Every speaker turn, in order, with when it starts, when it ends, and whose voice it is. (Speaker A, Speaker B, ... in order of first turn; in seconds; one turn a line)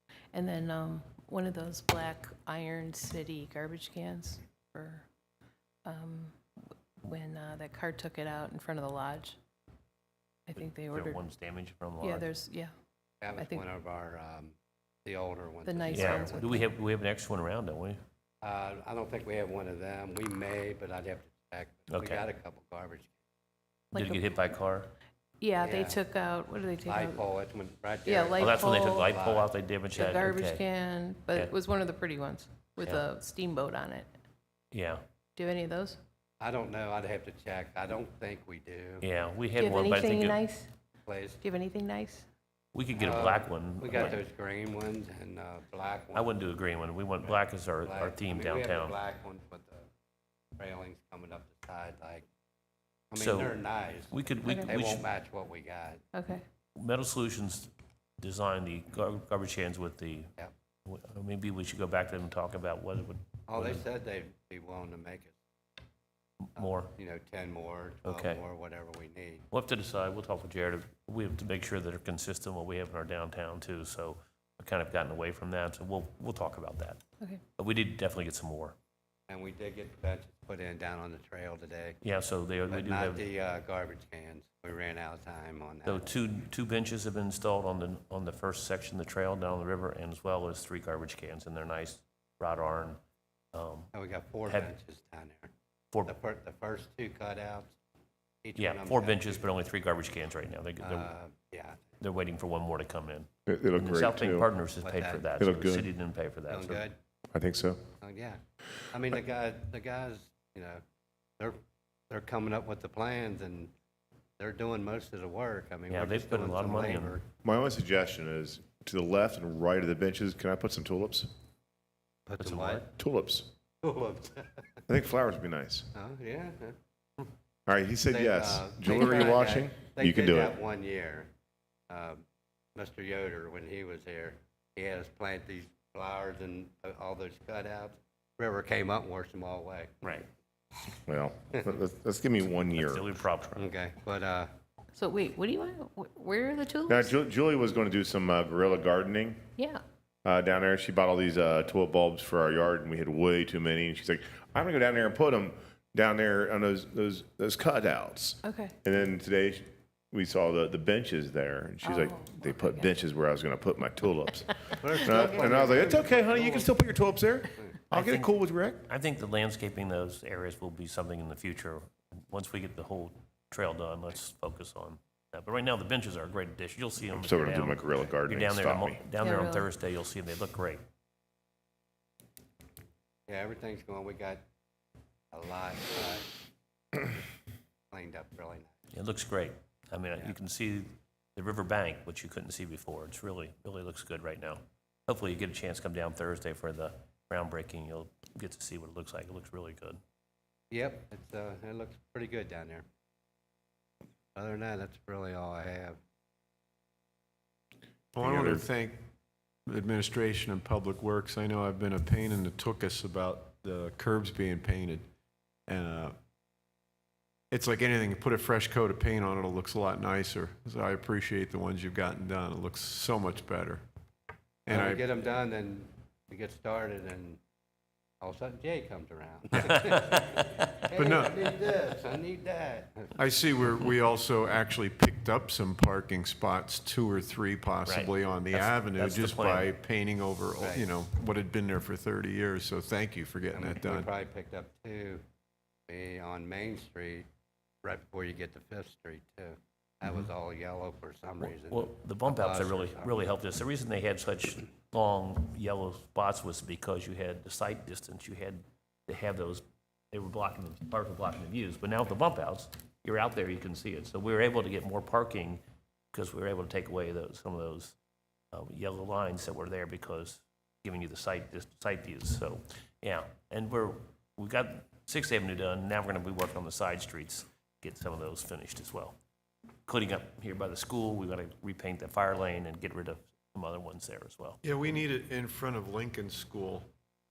Speaker A: 0.3-5.1
Speaker A: 5.8-6.4
Speaker A: 7.0-9.4
Speaker A: 10.5-11.2
Speaker B: 10.9-12.3
Speaker A: 12.0-12.7
Speaker C: 13.2-16.6
Speaker A: 13.3-13.7
Speaker A: 15.6-16.6
Speaker B: 15.9-18.0
Speaker C: 18.4-23.1
Speaker B: 21.9-22.2
Speaker A: 23.9-24.3
Speaker B: 23.9-24.9
Speaker A: 25.4-27.3
Speaker C: 25.6-26.0
Speaker C: 26.9-29.5
Speaker A: 28.0-29.1
Speaker B: 28.4-30.6
Speaker A: 29.9-34.1
Speaker B: 34.7-35.0
Speaker A: 35.4-36.0
Speaker C: 36.4-39.0
Speaker B: 39.0-40.4
Speaker A: 39.6-40.7
Speaker C: 41.0-41.4
Speaker A: 41.4-42.3
Speaker B: 42.7-44.2
Speaker C: 43.0-46.3
Speaker B: 46.1-48.9
Speaker C: 47.2-49.9
Speaker C: 50.6-52.2
Speaker C: 53.1-56.0
Speaker B: 53.2-53.6
Speaker B: 54.1-55.0
Speaker A: 54.4-54.7
Speaker A: 56.1-56.4
Speaker B: 56.8-57.7
Speaker B: 58.2-60.3
Speaker B: 60.9-63.8
Speaker C: 63.5-65.4
Speaker B: 66.5-66.9
Speaker C: 66.6-69.4
Speaker B: 68.0-68.4
Speaker B: 69.5-77.0
Speaker B: 77.6-78.8
Speaker C: 79.3-82.0
Speaker B: 82.0-83.2
Speaker C: 82.7-86.1
Speaker B: 85.8-93.0
Speaker B: 93.5-93.9
Speaker C: 93.9-95.5
Speaker C: 96.1-97.8
Speaker C: 98.4-99.4
Speaker B: 98.6-101.1
Speaker C: 100.8-101.8
Speaker B: 102.0-106.8
Speaker D: 103.5-104.5
Speaker C: 104.8-105.3
Speaker D: 105.4-105.9
Speaker C: 106.5-107.0
Speaker D: 107.3-107.8
Speaker C: 108.0-108.4
Speaker C: 108.9-110.8
Speaker C: 111.4-113.7
Speaker C: 114.4-117.2
Speaker B: 115.9-117.2
Speaker D: 117.4-121.3
Speaker C: 122.3-122.9
Speaker B: 122.4-122.9
Speaker D: 123.0-123.5
Speaker C: 123.8-124.6
Speaker D: 124.9-125.9
Speaker C: 125.9-126.8
Speaker D: 127.7-130.6
Speaker C: 128.1-131.3
Speaker C: 131.9-132.2
Speaker C: 132.7-140.2
Speaker D: 141.1-143.1
Speaker B: 142.7-143.7
Speaker C: 143.6-144.5
Speaker A: 144.9-147.1
Speaker D: 146.9-149.4
Speaker D: 150.2-168.8
Speaker A: 158.4-158.8
Speaker A: 161.8-162.9
Speaker C: 164.8-166.7
Speaker B: 167.9-180.8
Speaker D: 177.1-179.0
Speaker A: 179.2-179.7
Speaker C: 183.3-184.4
Speaker C: 185.3-186.3
Speaker C: 186.9-187.2
Speaker C: 187.9-188.8
Speaker B: 188.9-200.0
Speaker C: 200.7-202.8
Speaker C: 204.3-206.0
Speaker E: 208.1-209.0
Speaker D: 208.2-208.6
Speaker E: 209.7-215.1
Speaker E: 215.7-216.1
Speaker E: 217.5-223.8
Speaker E: 224.7-225.0
Speaker C: 224.7-227.4
Speaker C: 228.2-233.1
Speaker B: 229.9-230.6
Speaker E: 230.9-231.4
Speaker E: 233.2-244.1
Speaker B: 237.8-239.7
Speaker C: 240.6-240.9
Speaker C: 243.5-245.2
Speaker C: 245.9-247.3
Speaker C: 247.8-253.2
Speaker B: 251.4-265.6
Speaker B: 266.1-267.9
Speaker B: 268.5-279.1
Speaker B: 279.9-284.6
Speaker E: 284.6-286.9